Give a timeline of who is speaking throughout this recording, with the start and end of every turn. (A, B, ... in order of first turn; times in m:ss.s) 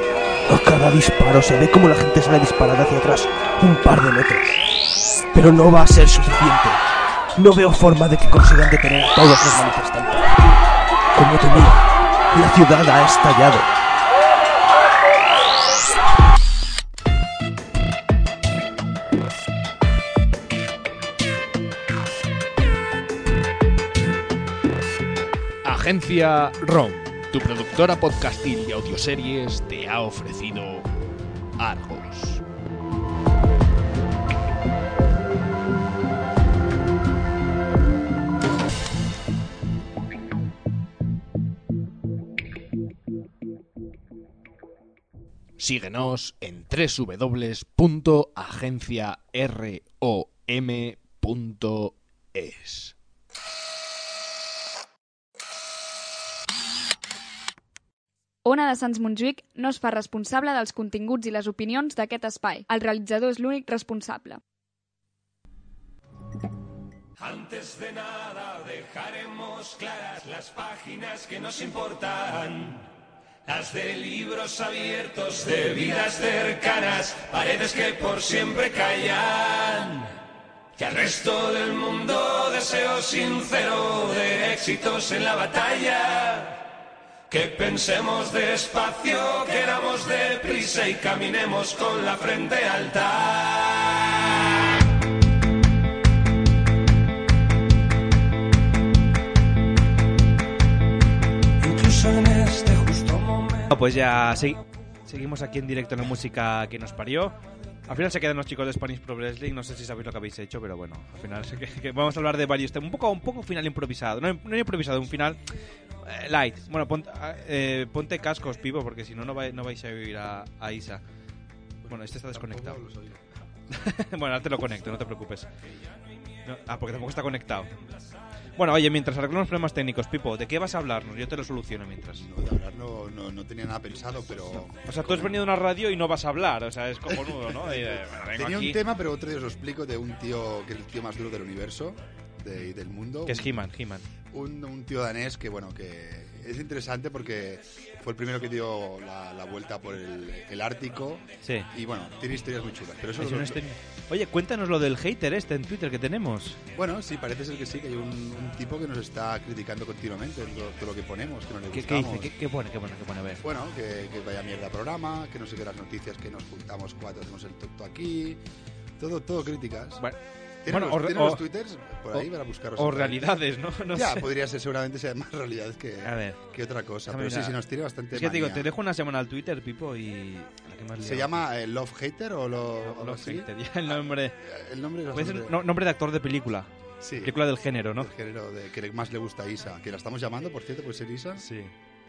0:00.5-0:04.6 A
0:05.3-0:06.8 A
0:07.4-0:10.3 A
0:11.1-0:13.7 A
0:25.6-0:30.9 B
0:31.6-0:32.4 B
0:45.6-0:52.9 B
0:58.4-1:04.4 C
1:09.6-1:12.6 D
1:13.6-1:19.9 D
1:20.8-1:26.1 D
1:27.3-1:33.2 D
1:43.7-1:47.4 E
1:47.9-1:55.4 E
1:56.0-2:01.0 E
2:01.8-2:03.2 F
2:01.9-2:02.8 E
2:03.7-2:05.5 E
2:06.5-2:07.7 E
2:08.6-2:12.3 E
2:12.2-2:15.4 F
2:14.8-2:18.8 E
2:17.1-2:23.6 F
2:23.3-2:24.0 E
2:24.3-2:33.6 F
2:31.4-2:31.7 E
2:33.2-2:36.6 E
2:36.8-2:42.3 F
2:41.7-2:43.4 E
2:43.4-2:48.4 F
2:49.0-2:50.0 F
2:50.6-2:53.3 F
2:50.7-2:51.4 E
2:52.1-2:54.3 E
2:53.9-2:58.7 F
2:56.0-2:56.4 E
2:57.1-2:57.6 E
2:58.1-3:01.4 E
3:01.0-3:03.5 F
3:02.8-3:04.4 E
3:04.4-3:05.6 F
3:05.1-3:06.7 E
3:07.0-3:07.4 F
3:07.2-3:08.1 E
3:08.0-3:11.4 F
3:11.4-3:11.7 E